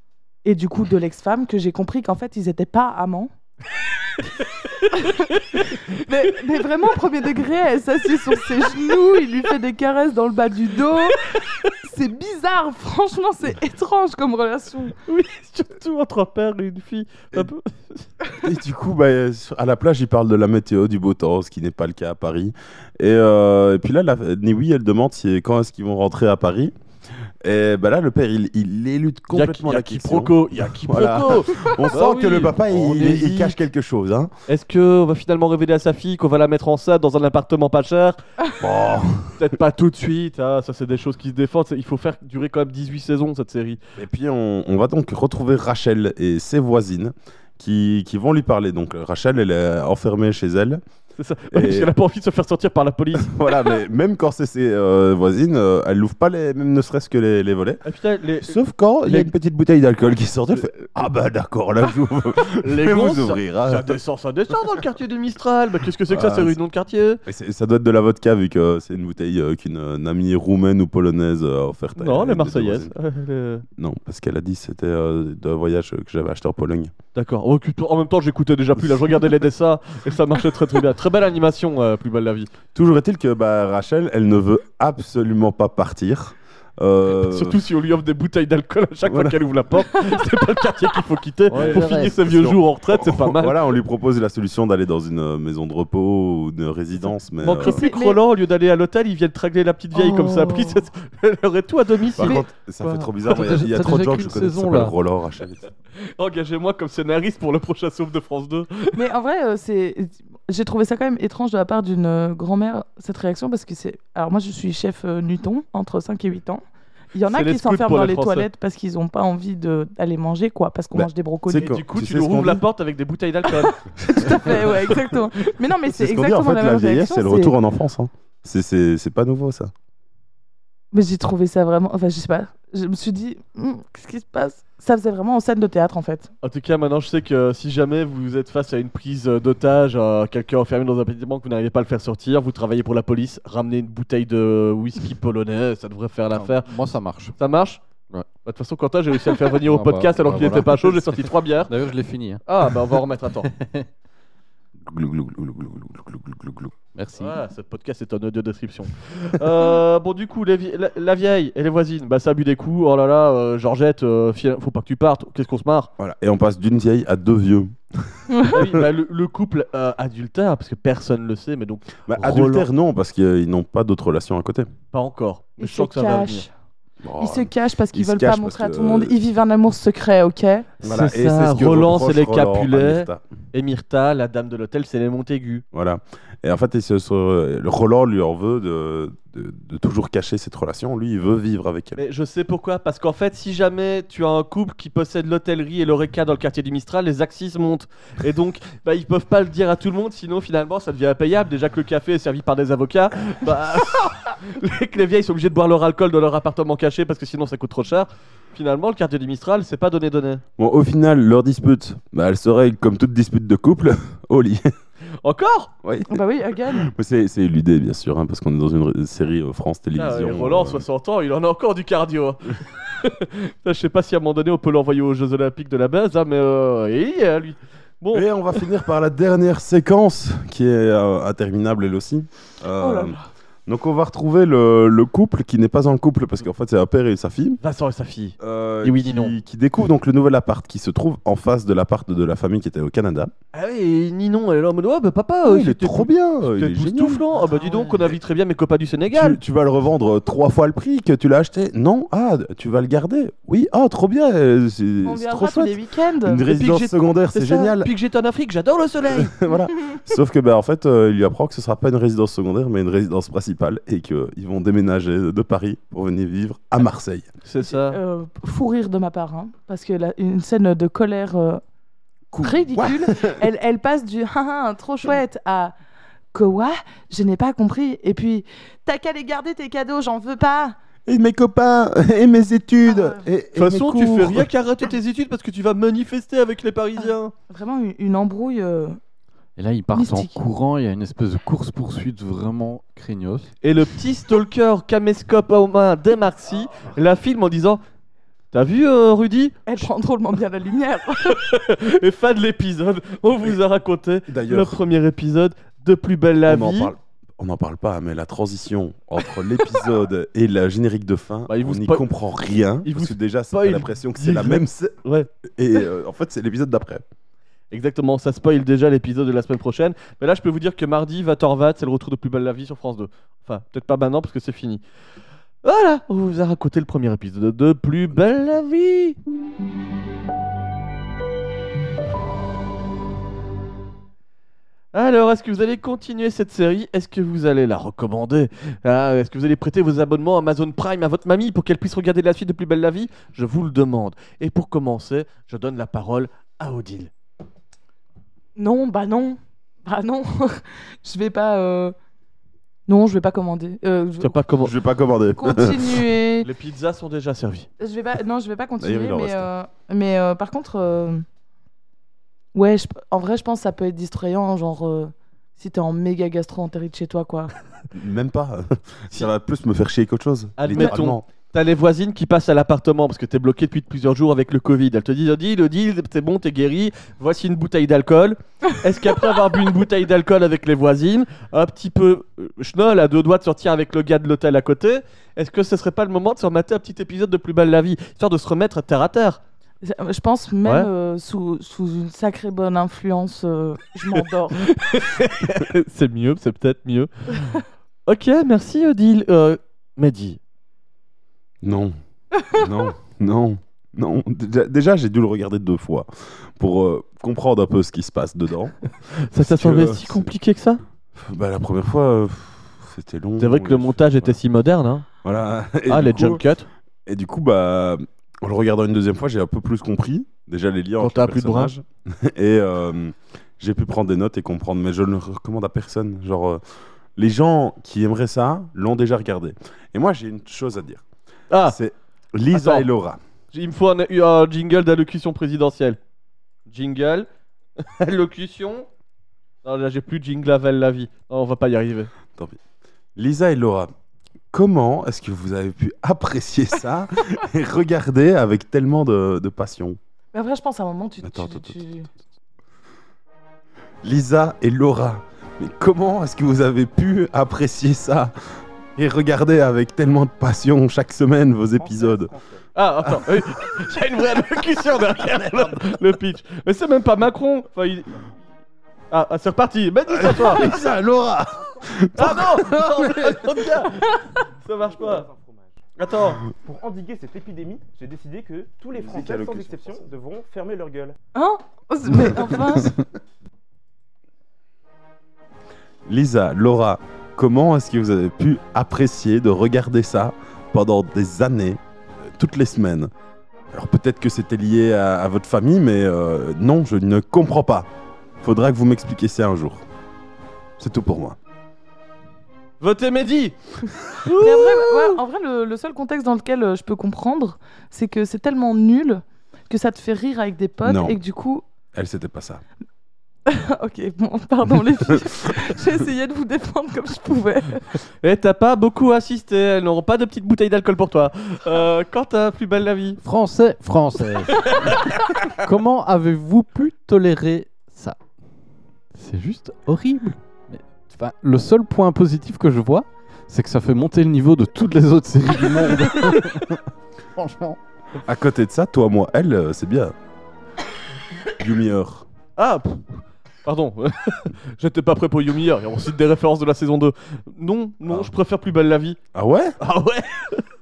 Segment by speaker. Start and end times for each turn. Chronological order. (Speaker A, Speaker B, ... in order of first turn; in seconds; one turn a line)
Speaker A: 0.4-3.3
Speaker B: 4.4-6.0
Speaker A: 4.9-14.9
Speaker B: 15.1-18.1
Speaker C: 18.4-26.7
Speaker C: 27.4-34.3
Speaker B: 29.3-33.6
Speaker B: 34.5-38.2
Speaker C: 38.6-39.4
Speaker B: 39.4-43.8
Speaker C: 44.0-50.8
Speaker B: 51.2-53.5
Speaker C: 51.5-51.9
Speaker C: 53.1-57.8
Speaker B: 57.8-59.3
Speaker C: 58.4-64.0
Speaker B: 62.5-67.2
Speaker C: 66.1-66.6
Speaker C: 67.2-72.9
Speaker B: 72.0-73.6
Speaker C: 73.8-76.9
Speaker B: 77.1-82.5
Speaker C: 82.7-87.6
Speaker B: 87.1-93.6
Speaker C: 89.0-89.4
Speaker D: 91.5-92.2
Speaker C: 91.5-97.8
Speaker B: 97.4-103.0
Speaker A: 97.6-98.2
Speaker A: 99.9-100.8
Speaker C: 102.2-105.7
Speaker D: 103.2-104.9
Speaker B: 105.9-109.0
Speaker A: 108.9-116.6
Speaker A: 117.1-121.7
Speaker B: 117.3-118.5
Speaker C: 120.9-122.6
Speaker B: 121.5-123.8
Speaker A: 123.7-127.5
Speaker C: 124.1-124.8
Speaker C: 125.9-129.7
Speaker A: 130.9-136.3
Speaker B: 136.4-146.8
Speaker D: 146.3-147.3
Speaker B: 147.4-147.8
Speaker B: 148.3-151.7
Speaker D: 149.4-152.7
Speaker B: 152.4-153.5
Speaker D: 153.5-153.9
Speaker C: 154.8-156.7
Speaker D: 156.9-157.4
Speaker B: 157.2-165.9
Speaker C: 166.0-168.8
Speaker B: 168.5-172.7
Speaker C: 172.1-174.7
Speaker B: 174.9-176.4
Speaker A: 175.6-176.5
Speaker C: 177.0-179.2
Speaker A: 177.2-180.7
Speaker C: 180.8-183.2
Speaker B: 180.8-185.6
Speaker C: 185.7-192.0
Speaker B: 192.0-210.4
Speaker C: 210.6-214.7
Speaker B: 215.2-215.7
Speaker C: 215.8-216.2
Speaker A: 216.1-216.9
Speaker C: 216.7-220.8
Speaker B: 219.9-228.3
Speaker C: 228.1-237.6
Speaker A: 232.8-233.2
Speaker B: 237.6-239.3
Speaker C: 238.4-243.3
Speaker B: 243.5-249.4
Speaker C: 245.4-247.2
Speaker A: 247.3-248.0
Speaker C: 249.1-257.9
Speaker A: 255.0-256.5
Speaker B: 256.5-259.3
Speaker C: 259.1-267.3
Speaker B: 267.4-268.0
Speaker A: 267.6-271.6
Speaker C: 272.3-273.4
Speaker A: 272.4-275.7
Speaker A: 276.3-280.8
Speaker C: 281.1-284.5
Speaker A: 282.9-283.2
Speaker B: 283.6-287.3
Speaker A: 287.0-289.0
Speaker D: 289.6-293.5
Speaker A: 289.9-290.4
Speaker B: 293.6-297.8
Speaker B: 298.5-299.9
Speaker A: 299.7-301.4
Speaker B: 301.3-306.9
Speaker C: 304.3-304.8
Speaker C: 306.4-317.0
Speaker B: 311.5-312.1
Speaker B: 312.8-315.3
Speaker B: 317.7-324.8
Speaker B: 325.6-329.2
Speaker B: 334.9-347.1
Speaker A: 348.6-351.9
Speaker A: 352.9-354.4
Speaker B: 354.2-354.7
Speaker C: 354.6-356.0
Speaker A: 355.4-356.5
Speaker B: 356.4-357.7
Speaker A: 357.8-361.2
Speaker C: 358.8-359.5
Speaker A: 362.5-367.5
Speaker C: 367.9-371.2
Speaker B: 370.6-389.4
Speaker A: 389.8-394.7
Speaker B: 394.2-400.4
Speaker C: 401.6-401.9
Speaker C: 402.5-408.8
Speaker B: 409.1-410.8
Speaker C: 409.3-410.3
Speaker C: 411.1-414.4
Speaker B: 413.4-415.1
Speaker C: 415.2-416.4
Speaker B: 415.9-416.7
Speaker C: 417.1-426.6
Speaker B: 421.0-421.7
Speaker C: 427.1-431.0
Speaker B: 431.5-431.8
Speaker C: 431.6-433.2
Speaker B: 432.5-432.9
Speaker B: 433.5-436.0
Speaker B: 436.7-437.3
Speaker B: 437.8-438.9
Speaker B: 439.6-442.1
Speaker C: 443.1-443.9
Speaker C: 444.5-450.0
Speaker A: 450.3-452.1
Speaker C: 451.2-451.8
Speaker C: 454.0-458.3
Speaker C: 458.9-462.3
Speaker E: 461.8-462.6
Speaker B: 462.7-468.2
Speaker B: 469.1-470.7
Speaker C: 470.1-473.7
Speaker E: 471.5-471.9
Speaker B: 472.1-474.1
Speaker A: 473.9-474.3
Speaker B: 474.6-475.3
Speaker E: 474.7-475.8
Speaker B: 476.0-476.4
Speaker E: 476.6-481.1
Speaker C: 478.9-480.1
Speaker A: 481.3-482.9
Speaker C: 482.1-483.0
Speaker C: 486.1-493.1
Speaker C: 493.7-497.9
Speaker C: 498.4-499.8
Speaker C: 500.8-501.4
Speaker B: 502.8-505.2
Speaker A: 504.3-511.6
Speaker C: 510.8-511.2
Speaker C: 511.9-512.6
Speaker A: 513.5-518.0
Speaker C: 515.1-515.5
Speaker B: 518.2-523.2
Speaker D: 523.2-528.2
Speaker B: 524.6-525.1
Speaker D: 529.1-537.8
Speaker C: 538.2-540.1
Speaker C: 541.6-542.2
Speaker B: 542.6-549.2
Speaker C: 548.1-548.3
Speaker C: 549.3-549.8
Speaker B: 549.8-550.7